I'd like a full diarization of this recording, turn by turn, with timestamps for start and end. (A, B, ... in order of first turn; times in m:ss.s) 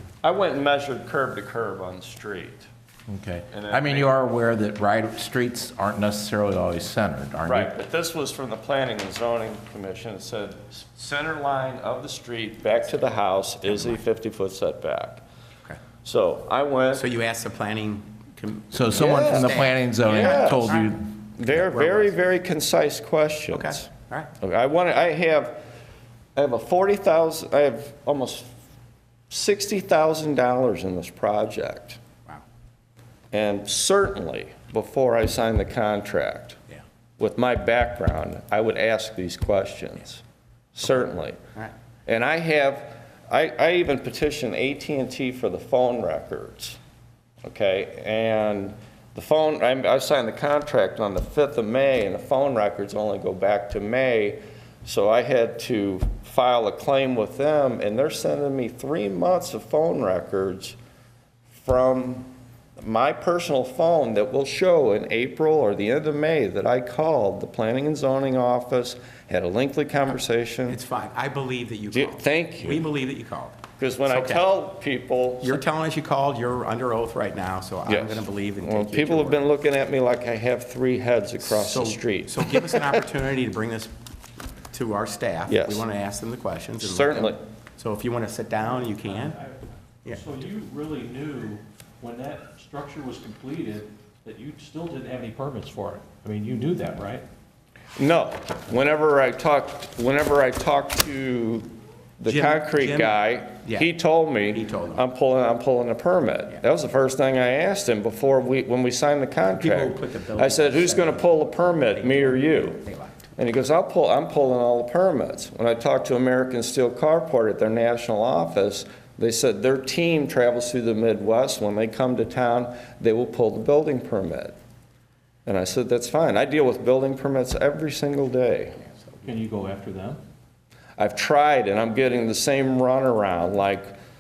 0:00.2-0:02.7 A
0:03.1-0:07.7 B
0:03.5-0:04.1 A
0:07.5-0:15.2 A
0:16.0-0:17.1 A
0:16.9-0:20.8 C
0:18.7-0:21.1 B
0:18.9-0:23.9 A
0:21.7-0:22.1 C
0:23.5-0:24.3 C
0:24.4-0:25.6 A
0:26.4-0:28.5 A
0:29.3-0:32.0 A
0:33.3-0:36.6 A
0:37.2-0:40.2 A
0:40.8-0:41.4 A
0:42.1-0:46.8 A
0:47.4-1:00.8 A
1:01.5-1:10.8 A
1:10.7-1:14.4 C
1:11.9-1:12.9 A
1:13.8-1:15.6 A
1:15.4-1:19.4 C
1:17.9-1:23.1 A
1:21.4-1:23.9 C
1:24.7-1:29.4 C
1:25.5-1:25.9 A
1:26.8-1:27.4 A
1:28.7-1:37.2 D
1:38.0-1:52.8 A
1:42.3-1:43.9 C
1:44.5-1:45.0 C
1:49.6-1:53.3 C
1:53.4-2:04.6 A
2:05.5-2:08.8 A
2:09.2-2:10.2 D
2:11.0-2:14.0 A